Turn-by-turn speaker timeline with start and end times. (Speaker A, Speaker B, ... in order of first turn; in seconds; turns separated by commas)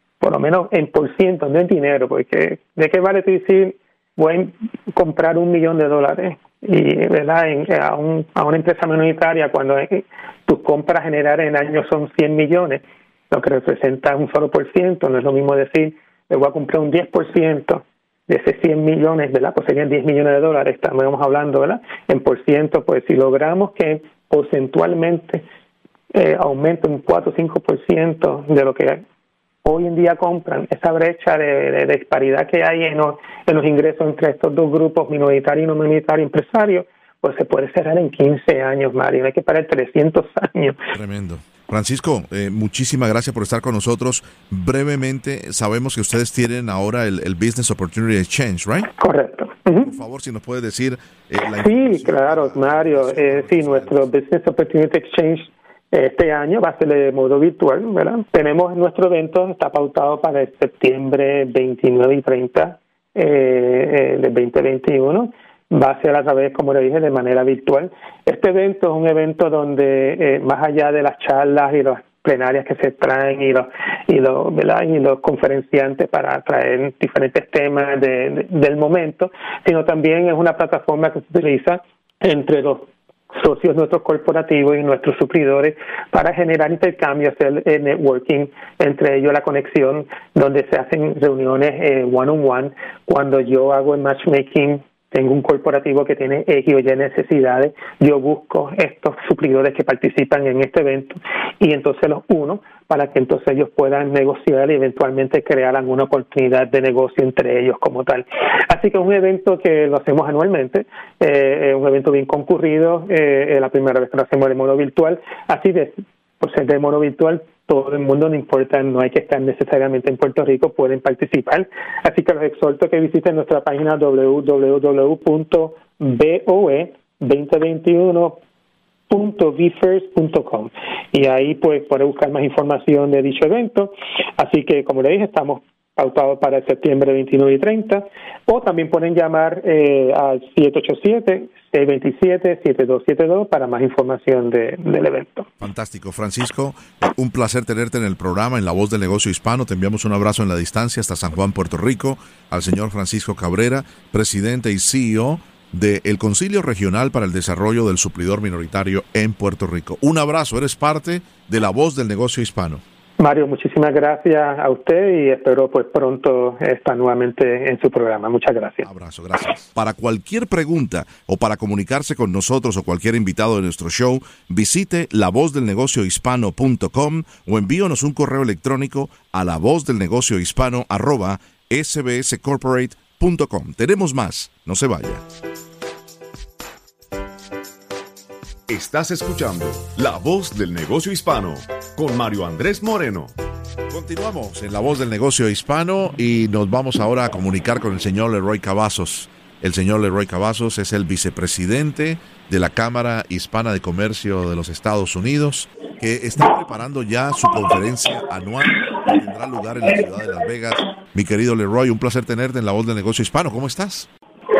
Speaker A: 0.2-25.4, Speaker A: 26.1-29.0, Speaker A: 29.6-40.8, Speaker B: 40.9-48.9, Speaker A: 49.0-49.9, Speaker B: 49.8-54.1, Speaker A: 51.6-128.4, Speaker A: 129.1-145.5, Speaker B: 145.6-162.8, Speaker A: 163.2-168.9, Speaker B: 168.8-185.2, Speaker C: 188.7-193.3, Speaker B: 193.9-214.1